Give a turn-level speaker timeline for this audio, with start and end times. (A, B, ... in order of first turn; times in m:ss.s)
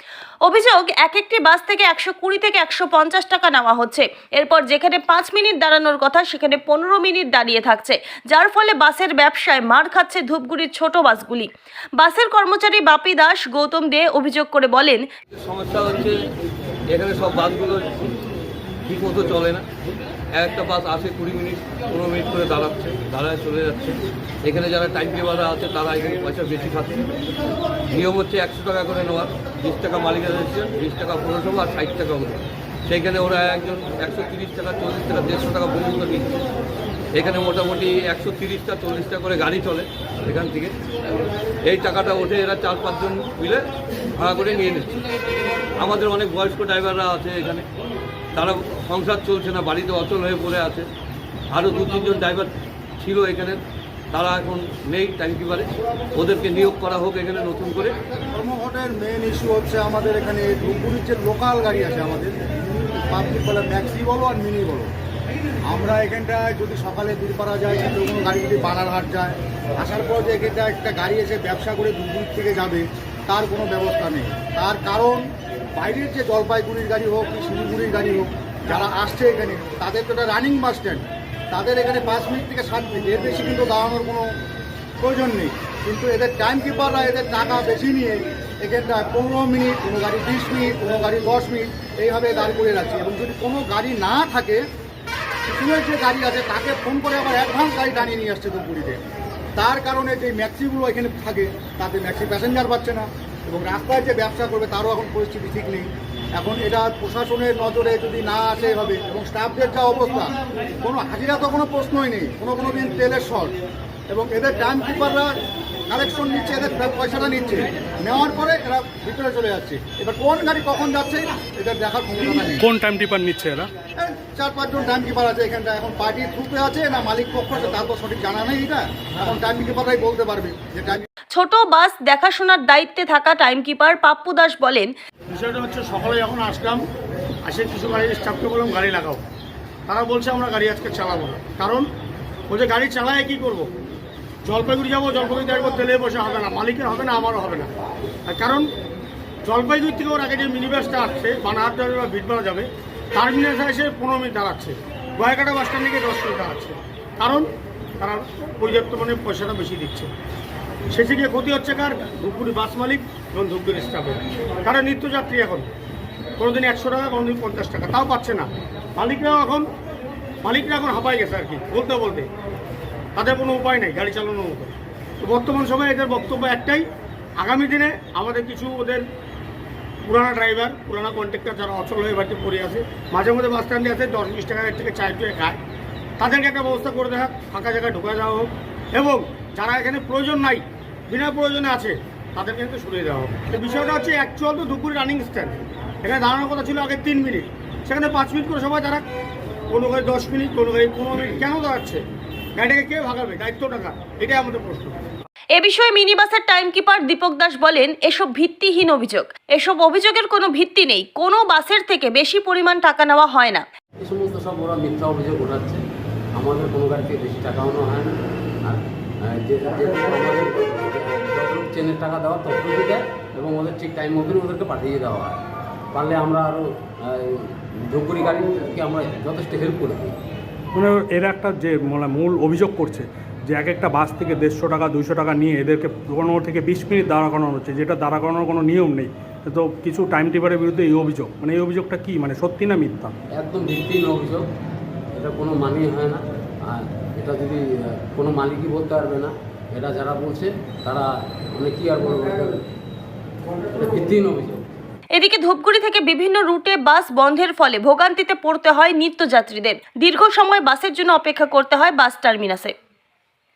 0:00.4-0:15.0 A
0:15.4-0:16.2 B
0:16.9-0:18.2 B
0:18.9-0:19.6 B
0:20.3-0:27.0 B
0:27.9-0:36.4 B
0:37.1-0:40.7 B
0:41.6-0:43.6 B
0:44.2-0:45.0 B
0:45.8-0:47.6 B
0:48.4-0:50.9 B
0:51.5-0:53.6 B
0:54.1-0:58.0 B
0:58.3-1:04.9 C
1:05.7-1:15.2 C
1:15.8-1:24.3 C
1:25.0-1:34.6 C
1:35.5-1:39.0 C
1:39.6-1:53.6 C
1:54.1-1:55.3 C
1:55.9-2:02.6 C
2:02.6-2:03.7 D
2:04.0-2:11.0 C
2:11.3-2:14.9 A
2:15.3-2:16.8 E
2:17.5-2:19.2 E
2:19.9-2:21.9 E
2:22.5-2:23.7 E
2:24.4-2:27.7 E
2:28.3-2:28.7 E
2:29.4-2:40.1 E
2:40.9-2:45.7 E
2:46.4-2:49.7 E
2:50.4-2:52.3 E
2:53.2-2:56.8 E
2:57.4-2:59.0 E
3:00.0-3:05.6 E
3:06.2-3:19.0 E
3:19.7-3:22.0 E
3:22.6-3:24.9 E
3:25.6-3:33.6 A
3:34.0-3:45.4 F
3:45.9-3:50.2 F
3:50.8-4:03.1 D
4:03.3-4:04.5 F
4:05.1-4:12.7 F
4:13.7-4:14.8 F
4:15.1-4:22.7 A